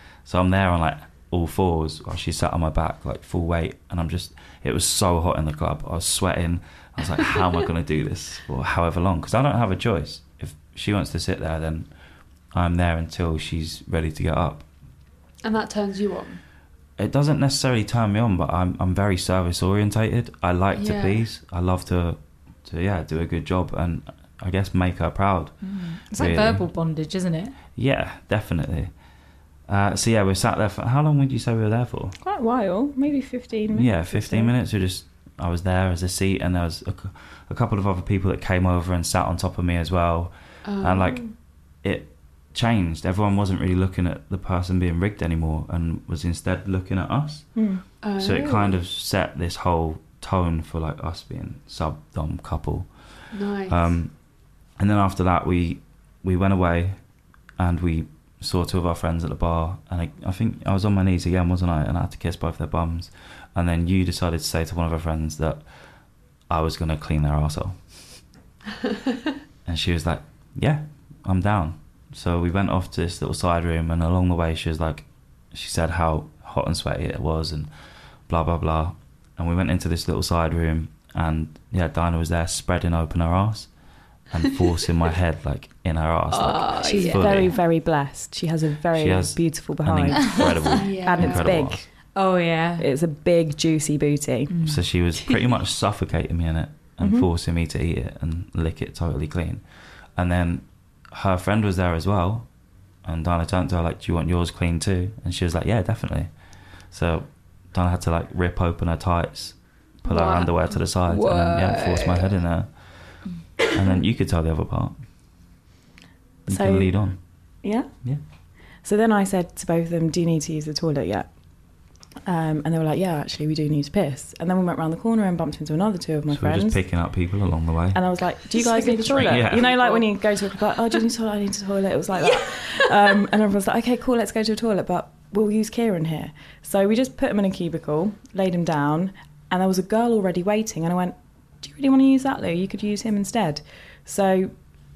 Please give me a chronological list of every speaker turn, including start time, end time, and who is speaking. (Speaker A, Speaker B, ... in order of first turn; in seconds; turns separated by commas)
Speaker A: 0.2-11.9, Speaker A: 12.5-14.7, Speaker B: 15.4-16.4, Speaker A: 17.0-25.6, Speaker B: 20.7-21.2, Speaker C: 25.6-27.6, Speaker A: 26.1-26.6, Speaker A: 27.8-28.9, Speaker A: 29.7-32.2, Speaker D: 32.2-34.5, Speaker A: 33.7-41.3, Speaker B: 40.6-41.2, Speaker A: 41.8-47.5, Speaker D: 47.5-47.8, Speaker B: 48.0-48.8, Speaker A: 48.2-52.9, Speaker B: 53.3-53.9, Speaker A: 53.7-54.1, Speaker A: 54.8-57.0, Speaker A: 57.6-65.6, Speaker A: 66.5-68.2, Speaker A: 69.7-77.7, Speaker A: 78.3-83.7, Speaker A: 84.3-87.6, Speaker C: 86.3-87.2, Speaker D: 86.8-91.8, Speaker B: 86.8-87.1, Speaker A: 88.9-91.8, Speaker C: 90.4-90.6, Speaker B: 90.7-91.6, Speaker C: 92.1-92.9, Speaker D: 92.8-94.5, Speaker C: 94.5-94.8, Speaker A: 94.6-99.6, Speaker D: 97.0-97.3, Speaker A: 100.2-102.5, Speaker A: 103.0-106.3, Speaker A: 106.9-115.0, Speaker B: 110.0-110.5, Speaker C: 111.1-112.1, Speaker D: 116.5-116.9, Speaker A: 116.5-117.2, Speaker D: 117.6-117.9, Speaker D: 118.8-121.3, Speaker D: 122.3-126.8, Speaker A: 126.3-128.0, Speaker D: 127.9-144.5, Speaker C: 128.6-129.2, Speaker B: 129.0-130.1, Speaker A: 129.2-129.7